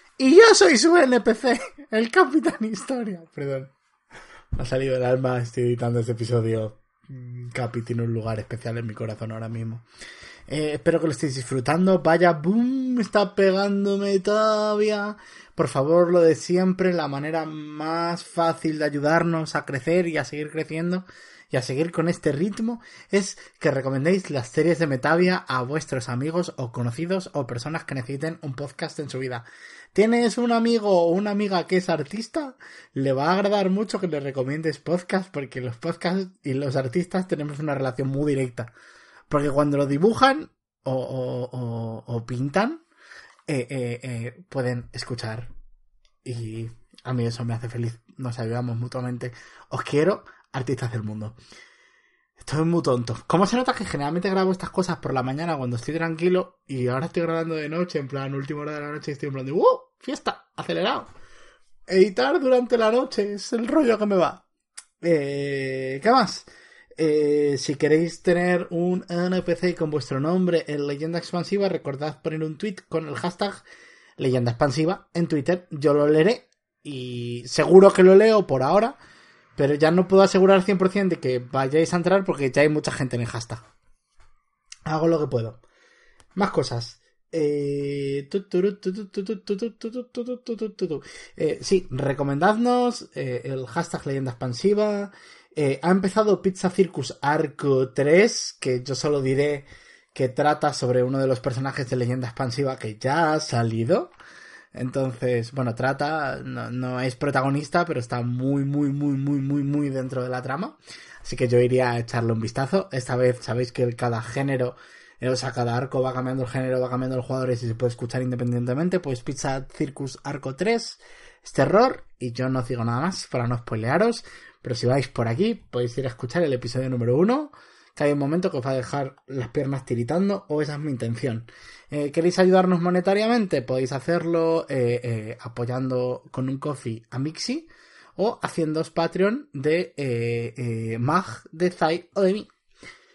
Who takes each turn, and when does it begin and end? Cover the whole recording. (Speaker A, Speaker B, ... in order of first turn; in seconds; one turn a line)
Speaker A: 0.2-3.7
Speaker A: 4.5-9.8
Speaker A: 10.5-38.7
Speaker A: 39.3-42.8
Speaker A: 43.5-45.5
Speaker A: 46.2-51.4
Speaker A: 52.4-61.1
Speaker A: 61.9-64.4
Speaker A: 65.0-73.6
Speaker A: 74.2-79.0
Speaker A: 79.5-83.6
Speaker A: 84.8-85.6
Speaker A: 86.3-104.1
Speaker A: 104.7-142.5